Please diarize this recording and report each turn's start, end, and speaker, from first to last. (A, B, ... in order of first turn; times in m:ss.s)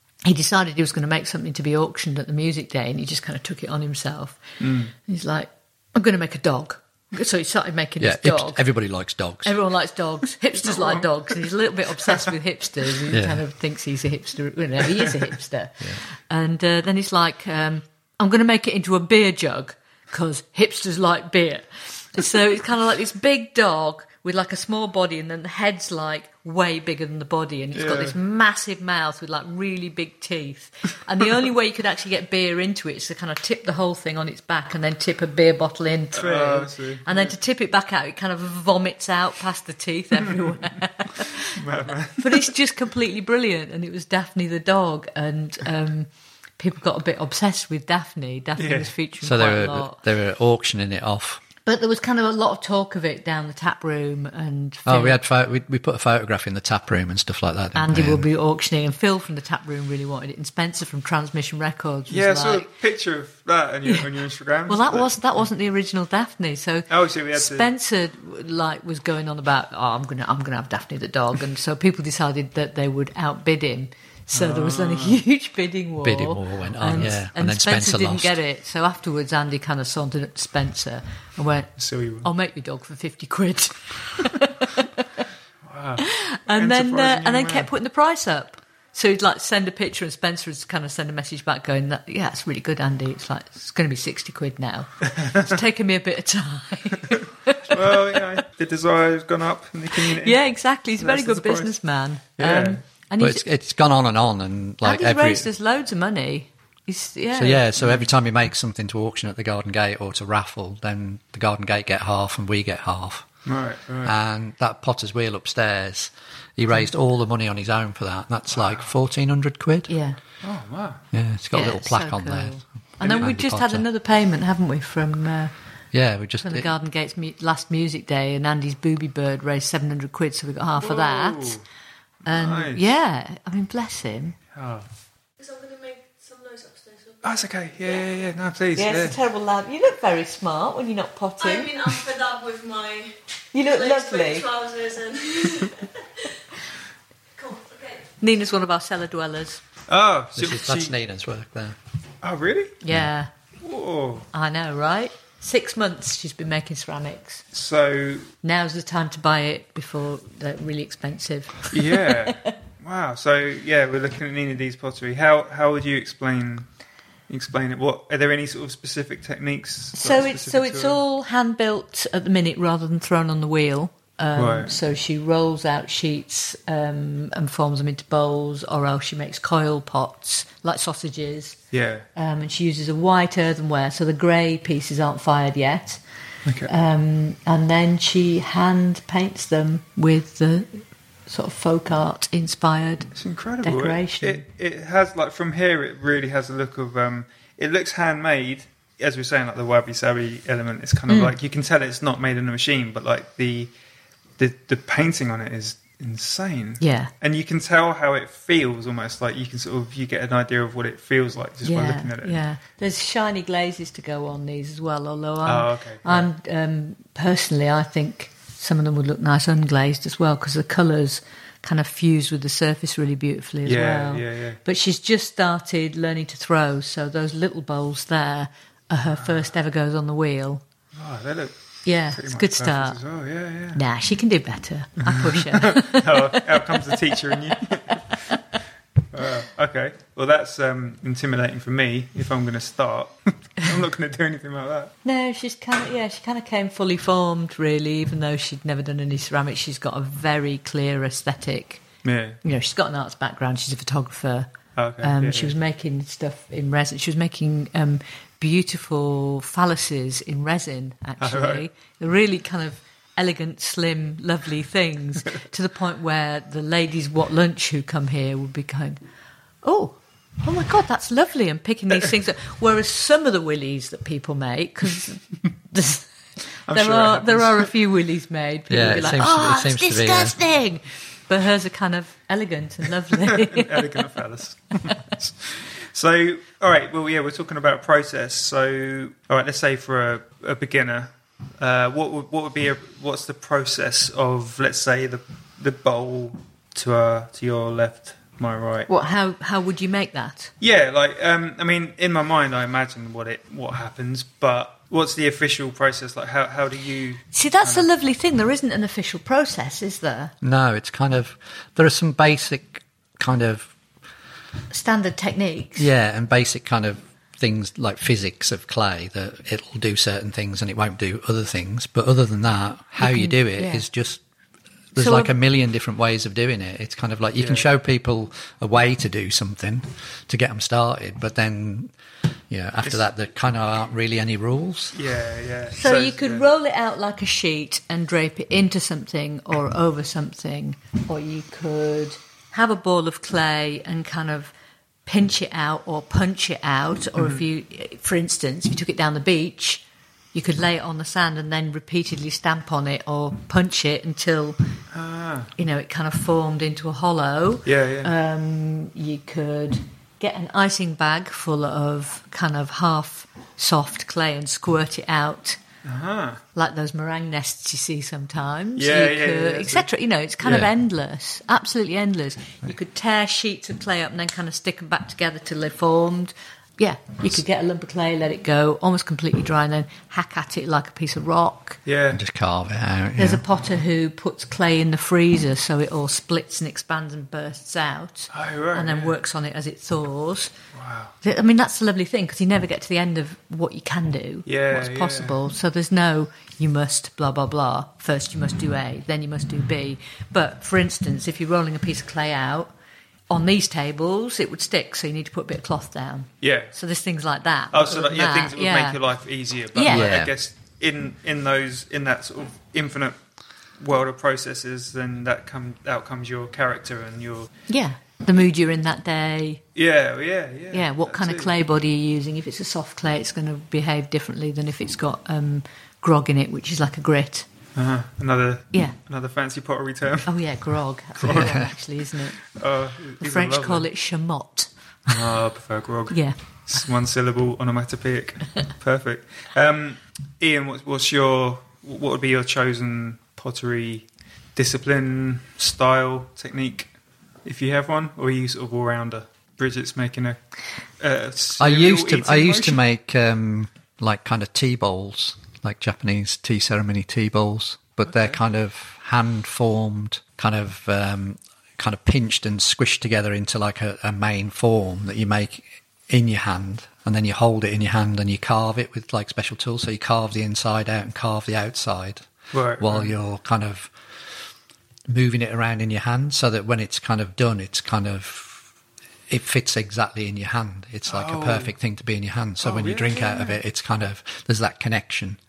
0:00.2-0:04.4 A
0:04.6-0:04.9 B
0:05.1-0:08.6 A
0:08.0-0:09.6 C
0:09.4-0:41.5 A
0:10.7-0:11.1 B
0:13.1-0:13.4 C
0:27.7-0:28.2 B
0:36.1-0:37.3 B
0:41.6-0:42.5 B
0:42.2-0:50.0 A
0:48.6-0:48.9 B
0:49.2-0:51.4 C
0:51.7-0:55.2 A
0:54.9-0:58.3 C
0:57.8-1:02.7 A
1:02.1-1:05.1 B
1:04.7-1:25.2 A
1:06.9-1:07.7 B
1:14.3-1:15.2 B
1:16.0-1:18.4 C
1:16.7-1:17.1 B
1:21.8-1:22.3 B
1:25.7-1:27.7 B
1:26.0-1:38.2 A
1:35.1-1:35.5 B
1:37.6-1:40.4 B
1:39.9-1:43.5 A
1:41.0-1:41.7 B
1:42.4-1:42.8 B
1:43.2-1:45.5 C
1:44.8-1:47.6 A
1:47.4-1:53.3 C
1:47.8-1:48.1 B
1:53.5-1:54.1 B
1:54.0-1:59.9 C
1:58.5-1:58.9 B
1:59.9-2:00.2 A
2:00.4-2:01.0 B
2:01.1-2:03.9 C
2:01.5-2:05.5 A
2:05.9-2:06.7 C
2:06.4-2:11.6 A
2:10.8-2:11.6 B
2:12.3-2:14.4 A
2:12.3-2:13.0 B
2:14.6-2:14.9 B
2:15.4-2:18.1 D
2:17.2-2:19.2 B
2:18.8-2:21.9 A
2:21.4-2:25.7 D
2:23.5-2:24.5 A
2:27.4-2:27.7 D
2:28.2-2:29.6 A
2:29.9-2:31.0 B
2:30.4-2:31.8 C
2:32.2-2:32.8 B
2:32.8-2:33.3 A
2:33.6-2:34.3 B
2:34.3-2:37.4 A
2:37.5-2:38.3 B
2:38.4-2:42.5 A
2:41.7-2:46.7 B
2:47.3-2:51.0 B
2:49.9-3:01.6 A
2:54.4-2:54.8 B
3:01.7-3:02.1 B
3:02.2-3:06.0 A
3:06.4-3:06.7 B
3:06.7-3:14.4 A
3:13.2-3:23.7 B
3:21.1-3:21.3 A
3:24.4-3:32.4 B
3:26.8-3:27.1 A
3:31.6-3:50.6 A
3:35.4-3:36.3 B
3:43.7-3:44.6 B
3:49.1-3:49.5 B
3:51.0-3:53.8 B
3:51.8-3:53.0 A
3:53.7-3:56.9 A
3:55.0-3:58.2 B
3:59.1-4:04.9 B
4:05.0-4:11.8 A
4:12.0-4:12.4 B
4:12.4-4:14.5 A
4:14.8-4:15.5 B
4:15.0-4:29.0 A
4:21.2-4:21.6 B
4:29.6-4:36.1 A
4:36.7-4:37.7 B
4:36.7-4:43.9 A
4:38.7-4:40.4 C
4:43.2-4:58.9 B
4:58.9-5:00.5 A
5:00.6-5:07.9 B
5:07.3-5:10.3 A
5:10.4-5:13.7 C
5:14.7-5:15.9 A
5:15.8-5:24.2 C
5:23.0-5:23.9 A
5:24.9-5:31.9 C
5:25.0-5:25.3 A
5:27.4-5:27.7 B
5:32.5-5:35.0 C
5:34.9-5:36.5 B
5:35.7-5:44.5 A
5:45.1-5:49.8 A
5:50.3-5:54.6 A
5:54.9-5:55.5 B
5:55.6-6:05.6 A
5:57.7-5:58.1 B
6:05.8-6:06.4 B
6:06.6-6:21.8 A
6:08.8-6:09.9 B
6:10.4-6:10.7 C
6:21.9-6:22.2 B
6:22.1-6:23.4 C
6:23.2-6:30.5 A
6:28.3-6:29.1 B
6:30.7-6:31.1 B
6:31.2-6:42.7 A
6:34.5-6:35.4 B
6:43.3-6:49.0 A
6:46.4-6:46.7 B
6:47.7-6:53.2 B
6:49.8-6:50.1 A
6:49.9-6:50.3 C
6:53.8-6:57.5 B
6:57.7-6:59.6 A
6:59.8-7:01.5 B
7:00.7-7:07.5 A
7:07.8-7:10.3 B
7:10.3-7:12.4 A
7:11.2-7:11.7 C
7:12.6-7:13.9 B
7:13.2-7:15.1 A
7:15.1-7:26.9 B
7:16.1-7:16.4 A
7:27.4-7:30.4 B
7:31.0-7:32.8 B
7:31.6-7:52.3 C
7:38.0-7:38.4 B
7:52.5-7:53.2 B
7:52.8-7:53.9 C
7:55.1-7:58.7 C
7:59.3-8:05.4 C
8:01.1-8:01.7 B
8:02.6-8:03.6 B